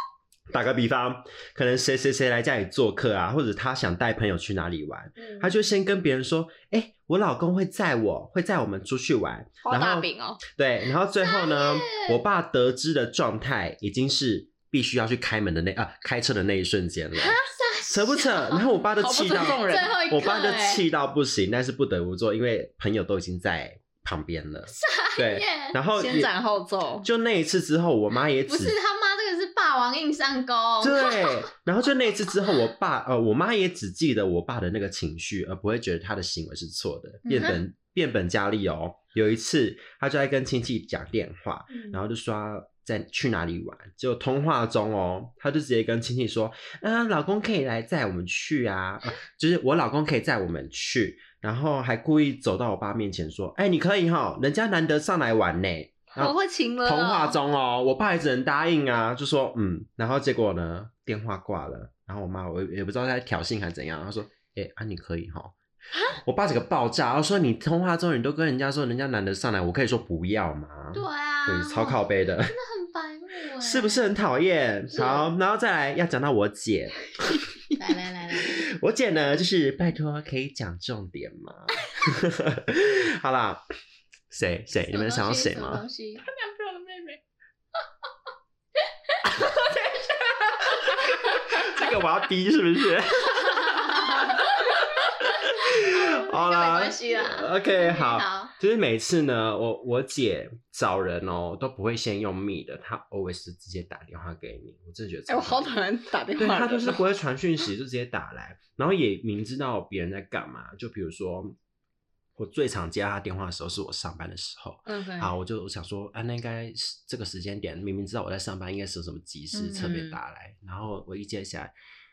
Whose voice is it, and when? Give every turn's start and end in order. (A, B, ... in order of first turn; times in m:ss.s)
0:00.5-0:26.3 A
0:05.2-0:05.5 B
0:09.6-0:10.4 B
0:11.2-0:12.2 C
0:17.2-0:18.8 C
0:19.0-0:20.0 B
0:19.6-0:20.8 C
0:24.8-0:25.8 C
0:26.0-0:27.1 B
0:27.0-0:28.8 A
0:28.4-0:31.5 C
0:30.8-1:05.6 A
0:37.2-0:37.6 C
0:56.1-0:57.4 B
1:06.2-1:12.5 A
1:10.9-1:14.2 C
1:13.6-1:17.4 A
1:14.9-1:15.3 C
1:17.8-1:18.5 C
1:18.3-1:23.6 A
1:24.3-1:25.8 A
1:24.9-1:26.3 C
1:26.3-1:27.2 B
1:30.7-1:34.0 A
1:33.7-1:34.5 C
1:33.9-1:34.2 B
1:35.3-1:45.8 A
1:35.4-1:38.5 C
1:45.3-1:47.0 B
1:46.4-1:51.6 A
1:52.4-2:01.7 A
1:54.9-1:55.4 B
1:59.5-2:00.0 C
1:59.8-2:00.2 B